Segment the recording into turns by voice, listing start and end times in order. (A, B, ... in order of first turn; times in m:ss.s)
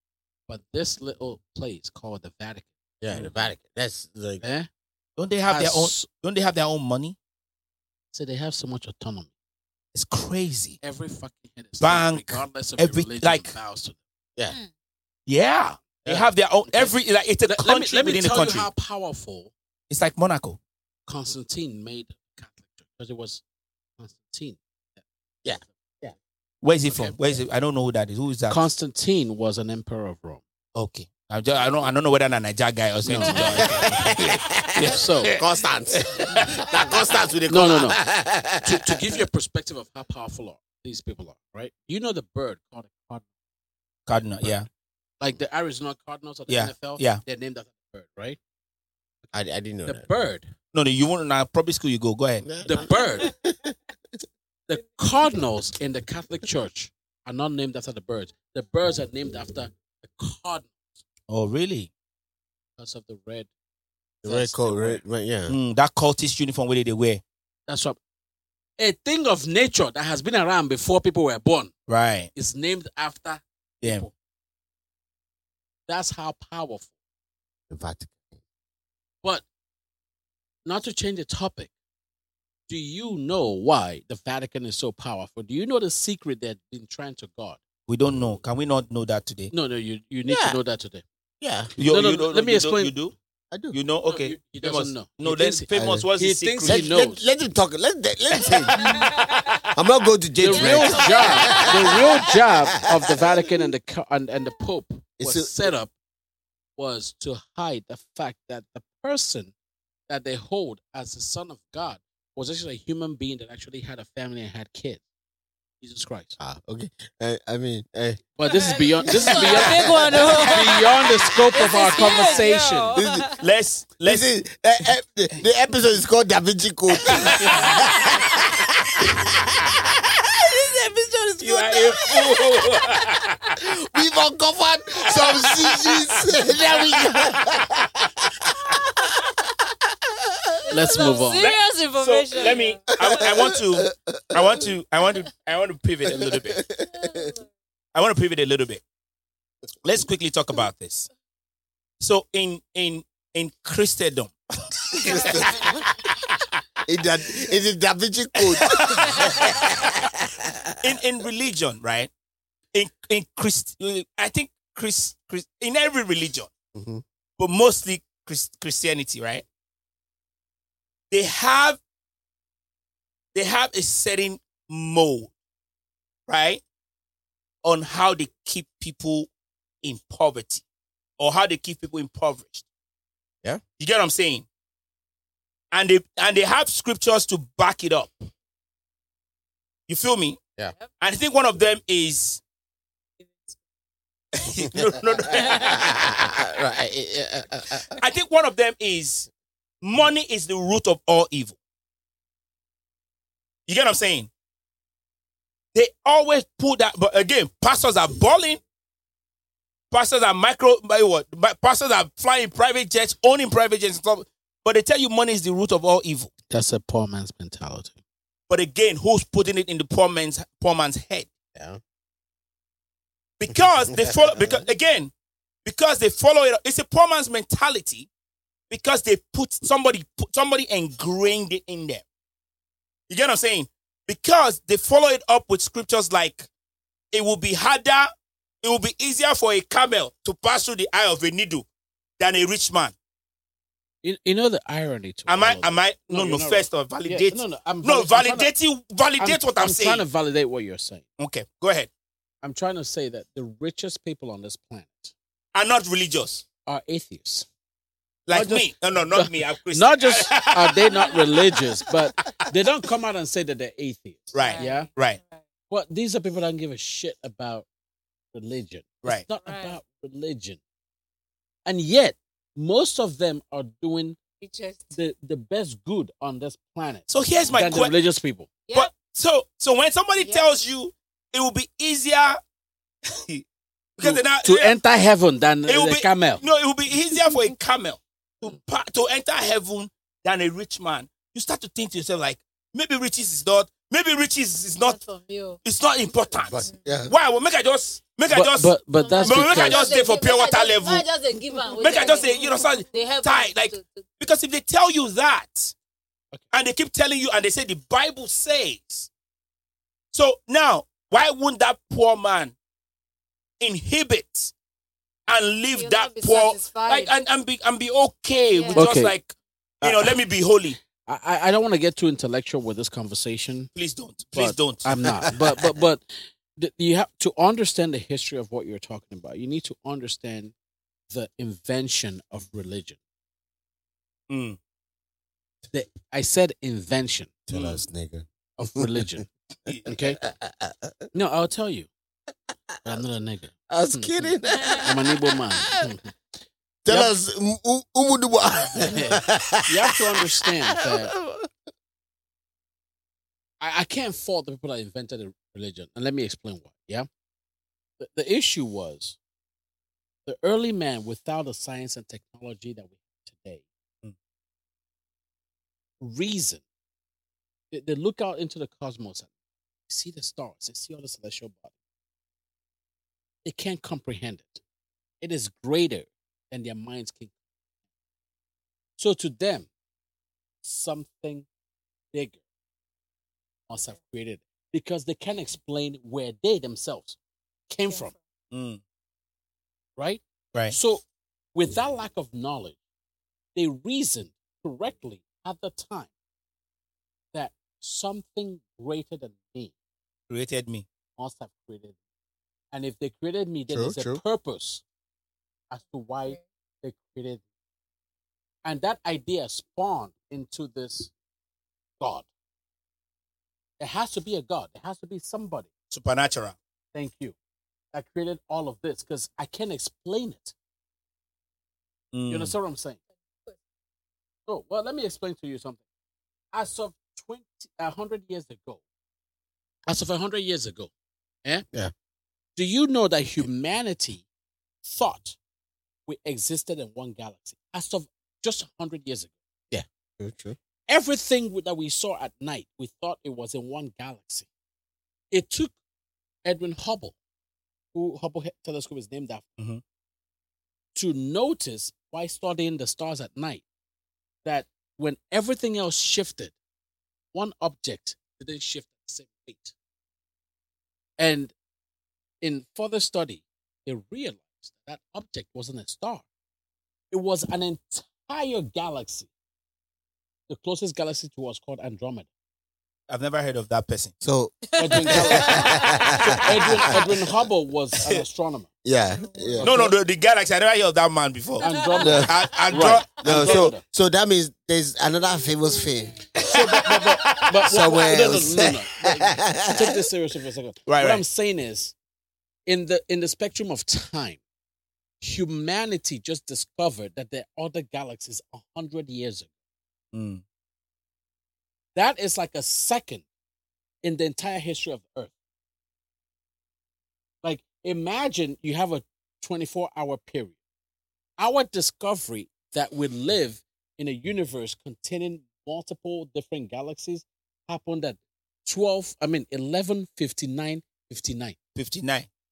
0:00.5-0:03.3 A
0:03.0-0:04.4 B
0:04.4-0:04.7 A
0:05.2-0:07.2 C
0:05.5-0:06.0 A
0:08.1-0:09.3 A
0:09.9-0:10.8 C
0:10.8-0:14.0 A
0:11.8-0:13.6 C
0:15.3-0:18.7 C
0:16.7-0:17.0 A
0:17.5-0:19.5 A
0:19.9-0:20.6 C
0:21.1-0:23.4 A
0:24.0-0:25.7 A
0:25.4-0:26.2 B
0:26.6-0:28.6 C
0:26.9-0:27.2 A
0:28.5-0:30.4 A
0:30.8-0:36.6 C
0:33.0-0:34.1 A
0:33.4-0:39.2 B
0:34.8-0:35.3 A
0:37.5-0:38.0 A
0:38.6-0:43.2 A
0:44.1-0:44.7 C
0:45.2-0:48.4 A
0:46.5-0:47.2 C
0:49.3-0:50.1 B
0:49.9-0:50.5 A
0:50.7-0:52.5 C
0:52.4-0:53.7 B
0:52.6-0:53.3 A
0:54.7-1:00.8 A
1:01.3-1:01.9 C
1:02.8-1:03.5 A
1:04.2-1:05.0 A
1:04.2-1:05.5 B
1:05.5-1:07.2 C
1:07.7-1:08.0 A
1:08.8-1:11.7 A
1:11.9-1:12.3 C
1:12.4-1:14.1 A
1:15.9-1:16.9 A
1:17.7-1:18.4 B
1:20.6-1:21.7 A
1:22.7-1:27.6 A
1:27.9-1:29.5 C
1:29.5-1:31.0 A
1:30.3-1:30.6 B
1:31.4-1:31.7 B
1:31.8-1:33.0 A
1:31.8-1:33.1 C
1:33.5-1:33.8 B
1:33.7-1:37.0 C
1:34.1-1:37.2 A
1:35.7-1:36.1 B
1:36.6-1:39.0 B
1:38.8-1:39.4 D
1:38.8-1:39.6 C
1:39.7-1:43.4 B
1:40.4-1:45.9 A
1:40.5-1:42.4 D
1:45.2-1:45.5 B
1:46.8-1:49.5 A
1:50.1-1:55.0 A
1:55.8-1:56.4 A
1:56.4-1:58.2 B
1:58.4-2:03.0 A
1:58.4-2:03.4 D
1:59.0-2:01.0 B
2:02.0-2:02.3 B
2:02.9-2:03.3 B
2:03.4-2:04.3 C
2:04.0-2:11.1 B
2:07.0-2:07.8 C
2:11.4-2:13.5 C
2:11.5-2:11.8 D
2:13.6-2:17.8 B
2:15.1-2:17.6 C
2:18.4-2:18.8 C
2:20.3-2:20.6 B
2:20.7-2:22.8 D
2:20.7-2:21.5 A
2:21.3-2:26.6 C
2:23.0-2:24.6 B
2:26.1-2:27.3 B
2:26.9-2:27.5 D
2:27.9-2:28.8 C
2:29.8-2:31.1 C
2:32.0-2:35.8 C
2:35.0-2:35.8 B
2:36.8-2:40.7 B
2:38.5-2:39.7 C
2:40.8-2:42.1 C
2:42.7-2:46.5 C
2:46.7-2:47.0 B
2:47.4-2:49.4 C
2:51.1-2:51.8 C
2:53.3-2:55.3 C
2:56.3-2:56.6 C
2:57.6-2:59.3 C
2:59.8-3:00.6 C
3:01.2-3:02.7 C
3:03.8-3:04.5 C
3:05.7-3:08.1 C
3:09.9-3:10.4 C
3:11.0-3:12.4 C
3:13.2-3:13.6 D
3:14.4-3:15.9 C
3:15.4-3:18.0 B
3:15.5-3:15.8 D
3:17.9-3:19.3 C
3:19.8-3:21.6 C
3:23.7-3:24.3 C
3:25.7-3:28.6 C
3:29.9-3:36.3 C
3:36.5-3:38.0 A
3:38.5-3:41.3 C
3:41.6-3:41.8 B
3:43.4-3:45.1 C
3:43.9-3:44.6 B
3:45.6-3:48.1 C
3:48.7-3:52.0 C
3:53.1-3:56.5 C
3:57.1-3:58.1 C
3:58.6-4:01.7 C
4:02.2-4:03.0 C
4:04.0-4:08.5 A
4:05.3-4:10.0 C
4:09.2-4:11.0 A
4:11.2-4:11.9 C
4:12.4-4:15.1 A
4:15.5-4:16.4 C
4:16.7-4:17.5 A
4:18.3-4:21.3 C
4:18.3-4:24.9 A
4:24.3-4:25.2 C
4:24.4-4:25.4 D
4:25.7-4:27.7 A
4:28.3-4:30.6 A
4:29.4-4:29.8 D
4:31.6-4:34.2 A
4:34.4-4:35.0 D
4:34.9-4:38.5 A
4:37.1-4:38.0 C
4:38.7-4:42.4 C
4:40.2-4:40.4 D
4:43.1-4:43.4 C
4:44.0-4:44.8 C
4:44.0-4:46.4 A
4:45.7-4:55.0 C
4:54.8-4:55.6 D
4:55.6-5:01.1 C
4:56.4-4:57.1 B
4:58.3-4:59.8 A
4:59.0-5:04.1 D
5:01.8-5:05.7 C
5:06.5-5:09.1 C
5:10.1-5:12.5 C
5:13.6-5:14.5 C
5:15.3-5:20.8 C
5:15.7-5:17.1 D
5:18.5-5:18.9 D
5:18.7-5:19.2 A
5:19.8-5:20.2 A
5:21.0-5:23.7 A
5:23.8-5:25.1 C
5:24.4-5:30.5 A
5:25.1-5:25.8 B
5:31.1-5:33.0 A
5:34.3-5:34.6 C
5:35.7-5:37.4 A
5:37.5-5:39.1 B
5:37.5-5:37.8 C
5:38.6-5:39.3 A
5:39.9-5:40.2 A
5:39.9-5:40.9 B
5:41.1-5:41.9 A
5:42.9-5:46.1 A
5:43.7-5:45.3 B
5:46.8-5:51.5 B
5:46.9-5:47.1 A
5:48.8-5:51.1 A
5:53.6-5:57.1 A
5:58.0-5:59.2 A
6:00.3-6:03.6 A
6:06.0-6:06.6 A
6:07.7-6:09.3 A
6:09.9-6:11.7 A
6:13.4-6:14.6 A
6:15.2-6:17.3 A
6:19.0-6:19.7 A
6:20.6-6:21.5 A
6:22.1-6:22.4 A
6:23.7-6:27.2 A
6:27.7-6:28.1 A
6:28.5-6:28.8 C
6:30.0-6:32.8 A
6:33.6-6:36.1 A
6:37.3-6:39.7 A
6:40.3-6:40.8 C
6:41.2-6:42.0 A
6:42.7-6:44.8 A
6:43.7-6:44.2 B
6:45.7-6:47.4 A
6:48.6-6:51.1 A
6:52.0-6:52.3 A
6:53.8-6:55.7 A
6:55.9-6:56.6 C
6:56.9-6:57.4 A
6:57.9-7:00.5 A
7:02.1-7:02.5 C
7:02.3-7:03.0 A
7:04.5-7:05.8 A
7:06.5-7:08.8 A
7:09.9-7:10.9 A
7:12.6-7:14.3 A
7:14.8-7:15.4 A
7:16.1-7:19.4 A
7:19.7-7:20.6 B
7:20.9-7:24.5 A
7:25.3-7:25.7 A
7:26.4-7:27.2 A
7:27.9-7:29.5 A
7:31.0-7:33.6 A
7:34.4-7:36.5 A
7:37.3-7:39.7 A
7:41.2-7:41.5 A
7:42.4-7:46.2 A
7:47.1-7:49.3 A
7:50.5-7:52.3 A
7:53.1-7:54.1 C
7:54.2-7:57.3 B
7:54.7-7:56.1 D
7:54.8-7:58.7 A
7:58.8-7:59.8 B
7:59.1-7:59.7 D
7:59.5-7:59.9 A
7:59.6-8:01.7 C
8:01.6-8:02.4 D
8:01.6-8:03.8 A
8:02.0-8:02.4 B
8:02.2-8:03.7 C
8:03.2-8:06.3 B
8:06.4-8:07.7 C
8:06.5-8:12.0 A
8:07.7-8:10.0 B
8:10.9-8:11.2 C
8:12.7-8:14.4 A
8:15.2-8:19.5 A
8:20.1-8:20.4 C
8:22.0-8:23.2 A
8:24.0-8:25.3 A
8:27.4-8:30.6 A
8:31.4-8:41.6 A
8:41.8-8:42.3 C